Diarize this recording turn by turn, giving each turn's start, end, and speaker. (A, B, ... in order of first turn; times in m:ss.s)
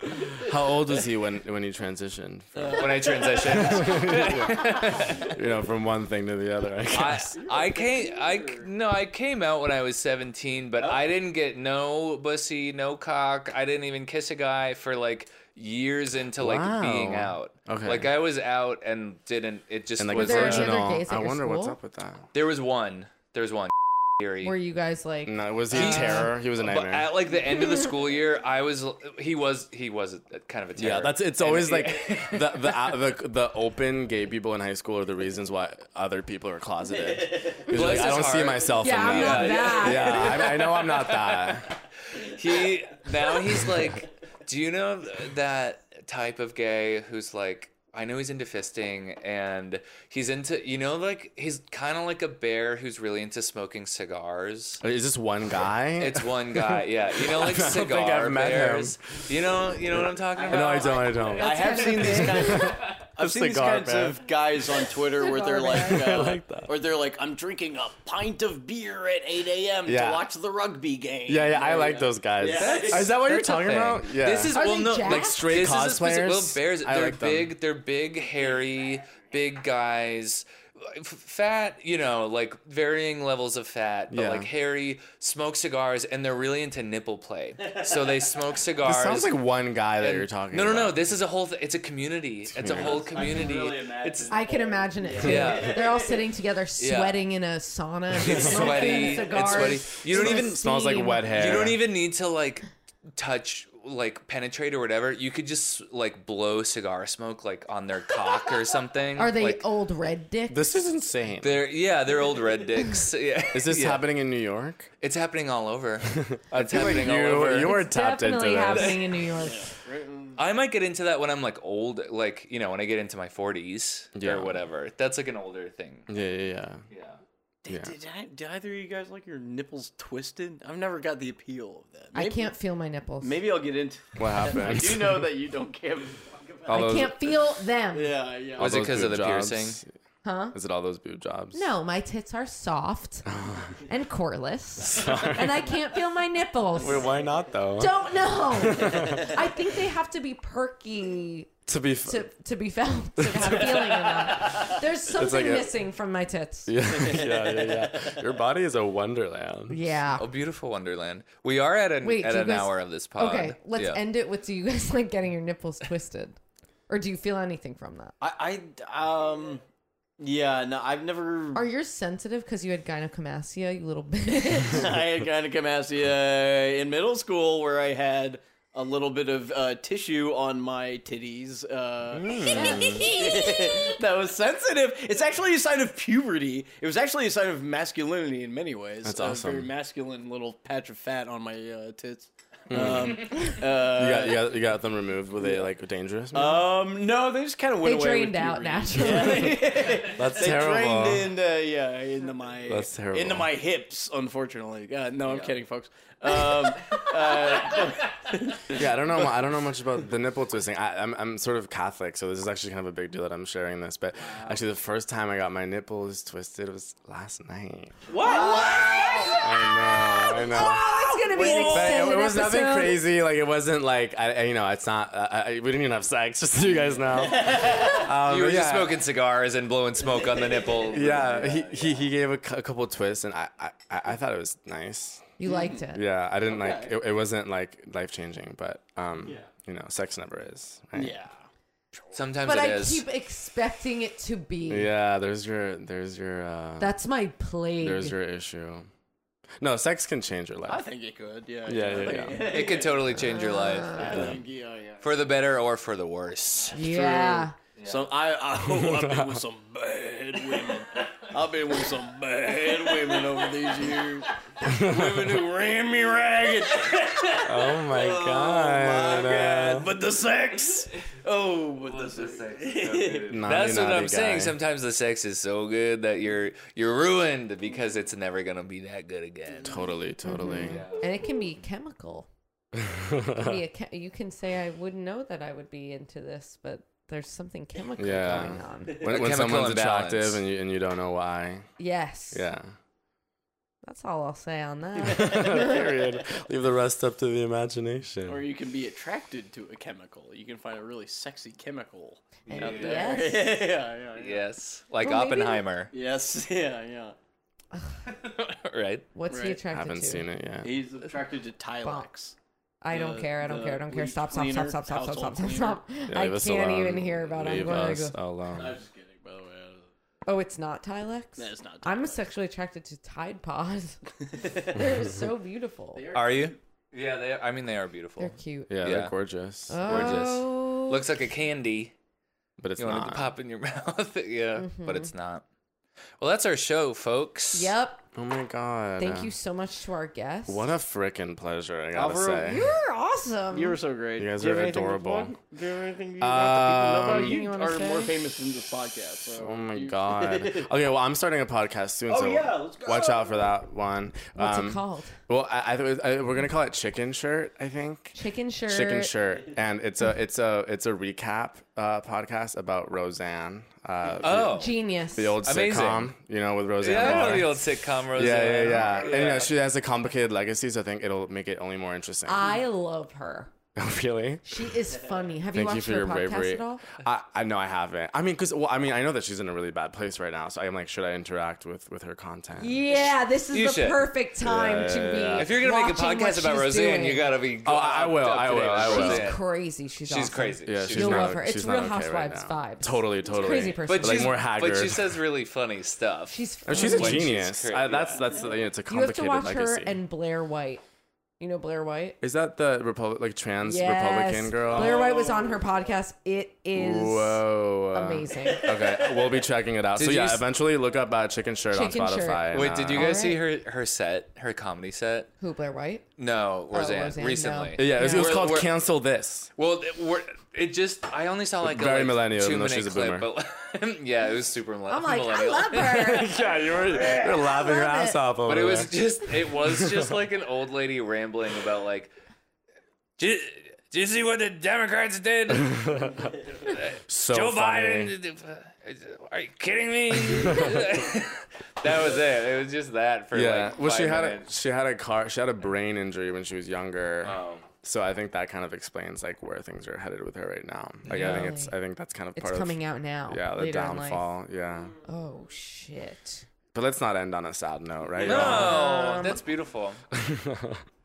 0:00.3-0:07.3 A
0:02.6-0:03.9 B
0:02.7-0:05.3 C
0:06.9-0:20.7 C
0:06.9-0:08.7 B
0:16.4-0:18.1 A
0:20.0-0:22.3 A
0:20.2-0:21.8 D
0:22.3-0:24.5 C
0:24.4-0:26.3 D
0:25.2-0:27.1 A
0:25.7-0:33.0 C
0:30.8-0:41.7 A
0:37.6-0:54.8 C
0:38.8-0:40.5 D
0:54.8-0:59.0 A
0:56.0-1:01.3 C
1:00.4-1:13.1 B
1:00.4-1:04.8 A
1:01.3-1:02.8 D
1:05.1-1:06.0 D
1:05.7-1:06.7 A
1:09.8-1:10.3 A
1:11.3-1:17.5 A
1:12.5-1:29.3 C
1:14.5-1:15.5 D
1:24.1-1:24.5 A
1:28.8-1:31.0 A
1:30.0-1:34.4 C
1:32.5-1:33.2 A
1:32.6-1:36.2 B
1:34.3-1:41.7 D
1:35.2-1:35.9 C
1:36.8-1:37.2 C
1:38.2-1:40.6 C
1:38.8-1:39.2 B
1:39.5-1:41.8 A
1:41.3-1:49.6 C
1:49.2-1:50.8 D
1:50.5-1:51.6 A
1:51.4-1:54.0 C
1:53.5-1:54.9 A
1:55.0-1:57.8 C
1:56.1-1:59.0 A
1:56.7-1:57.5 B
1:57.6-1:59.7 D
1:58.7-1:59.0 C
1:59.4-2:00.4 B
2:00.4-2:06.1 C
2:04.2-2:04.6 A
2:06.1-2:06.8 A
2:06.9-2:07.2 C
2:07.6-2:12.5 B
2:07.7-2:07.9 A
2:12.1-2:13.4 D
2:13.2-2:17.1 B
2:14.2-2:15.3 A
2:16.6-2:17.2 A
2:16.7-2:18.1 D
2:17.9-2:18.7 B
2:18.6-2:19.9 A
2:18.6-2:19.8 C
2:20.2-2:20.6 D
2:20.5-2:21.7 A
2:21.5-2:23.2 D
2:23.2-2:23.8 A
2:23.8-2:27.1 D
2:24.8-2:25.7 A
2:26.7-2:28.0 A
2:27.8-2:31.5 D
2:28.5-2:29.4 A
2:31.7-2:32.3 A
2:32.1-2:36.7 D
2:33.2-2:35.7 A
2:36.7-2:39.8 A
2:37.0-2:38.2 B
2:39.7-2:40.3 D
2:40.2-2:44.0 C
2:42.0-2:46.4 D
2:46.9-2:48.1 D
2:48.2-2:49.6 B
2:50.2-2:51.6 B
2:51.5-2:54.9 D
2:54.6-3:14.5 B
3:02.1-3:03.1 A
3:02.5-3:04.0 D
3:09.0-3:09.7 A
3:12.7-3:16.7 A
3:13.3-3:13.6 D
3:15.4-3:15.7 B
3:16.3-3:28.8 B
3:17.8-3:19.8 D
3:20.0-3:21.4 A
3:22.6-3:23.5 A
3:26.3-3:26.6 D
3:28.7-3:38.1 A
3:34.2-3:34.6 B
3:38.1-3:39.4 B
3:38.1-3:39.0 C
3:38.2-3:43.0 D
3:39.4-3:49.0 A
3:40.8-3:42.1 B
3:46.8-3:48.0 B
3:47.6-3:51.4 C
3:50.0-3:52.1 B
3:50.9-3:55.3 A
3:55.4-3:56.0 D
3:55.4-3:55.8 B
3:55.9-4:01.2 A
3:56.4-3:56.9 B
4:00.9-4:02.2 B
4:02.1-4:03.0 C
4:02.4-4:04.9 D
4:04.7-4:06.9 A
4:06.8-4:08.2 D
4:07.8-4:08.9 A
4:09.6-4:10.8 A
4:10.7-4:13.2 B
4:11.6-4:12.6 A
4:12.3-4:14.4 C
4:13.2-4:14.3 D
4:13.9-4:15.1 B
4:14.1-4:14.4 A
4:15.0-4:16.8 C
4:16.7-4:17.5 D
4:16.7-4:33.3 B
4:17.8-4:18.1 C
4:18.6-4:19.4 A
4:24.6-4:25.4 A
4:27.4-4:29.9 A
4:31.8-4:39.8 C
4:33.3-4:34.5 A
4:39.6-4:40.8 A
4:40.2-4:42.3 D
4:40.6-4:41.0 C
4:42.8-4:43.6 A
4:43.4-4:49.1 D
4:48.0-4:51.7 A
4:49.0-4:50.4 C
4:51.8-4:52.5 D
4:52.3-4:52.7 A
4:53.8-4:55.9 D
4:55.0-4:58.4 A
4:55.2-4:55.8 B
4:58.2-5:04.4 B
5:02.4-5:03.1 C
5:02.5-5:03.6 D
5:04.2-5:05.9 C
5:05.0-5:05.6 D
5:05.9-5:07.2 B
5:08.1-5:09.1 C
5:09.1-5:10.2 D
5:09.3-5:09.6 B
5:09.7-5:10.8 A
5:10.6-5:12.3 B
5:12.8-5:18.2 D
5:12.9-5:15.8 B
5:16.1-5:18.8 A
5:18.5-5:19.9 B
5:20.2-5:26.0 D
5:21.4-5:22.2 B
5:24.4-5:24.6 B
5:25.9-5:26.6 B
5:26.1-5:29.1 C
5:28.2-5:28.7 D
5:28.7-5:30.2 A
5:29.7-5:31.0 D
5:29.8-5:31.9 C
5:32.6-5:33.3 A
5:32.8-5:35.4 C
5:34.6-5:35.1 D
5:36.2-5:37.7 C
5:37.5-5:38.0 D
5:38.1-5:39.3 A
5:39.0-5:40.7 D
5:40.5-5:42.6 A
5:41.9-5:42.6 B
5:42.4-5:43.8 D
5:43.5-5:50.7 B
5:44.2-5:45.3 A
5:46.2-5:47.4 A
5:47.0-5:48.1 D
5:49.4-5:58.2 A
5:52.1-5:53.5 B
5:54.4-5:55.2 D
5:58.1-5:59.1 D
5:58.7-6:12.5 A
6:04.2-6:04.8 C
6:04.6-6:05.4 D
6:05.4-6:06.1 C
6:06.8-6:09.5 C
6:12.2-6:13.5 D
6:13.8-6:14.8 A
6:14.4-6:16.8 D
6:15.5-6:22.8 A
6:22.6-6:27.3 D
6:23.5-6:24.1 C
6:24.4-6:25.5 A
6:25.3-6:29.4 C
6:27.6-6:29.3 A
6:28.8-6:34.4 D
6:30.0-6:31.4 C
6:30.6-6:35.2 A
6:33.8-6:38.4 C
6:36.3-6:37.3 D
6:36.6-6:40.0 A
6:38.9-6:40.8 D
6:41.4-6:42.2 D
6:42.2-6:45.1 A
6:43.6-6:48.8 D
6:44.7-6:45.7 B
6:46.7-6:53.2 A
6:50.0-6:50.4 C
6:51.7-6:53.4 D
6:52.5-6:55.3 C
6:55.4-6:56.0 D
6:56.2-6:58.7 C
6:56.7-6:58.5 D
6:57.8-6:59.5 A
6:59.6-7:07.2 C
7:01.6-7:03.3 A
7:04.9-7:06.3 D
7:05.9-7:08.9 A
7:07.0-7:08.2 D
7:08.4-7:12.1 C
7:09.6-7:10.1 A
7:13.2-7:24.5 C
7:15.5-7:16.3 A
7:17.1-7:18.1 A
7:20.3-7:20.8 A
7:23.3-7:34.9 A
7:27.2-7:27.6 C
7:31.0-7:31.5 C
7:31.1-7:31.7 D
7:32.3-7:34.3 D
7:35.1-7:36.4 D
7:36.7-7:38.8 A
7:38.2-7:39.4 D
7:38.2-7:40.0 C
7:40.1-7:40.8 A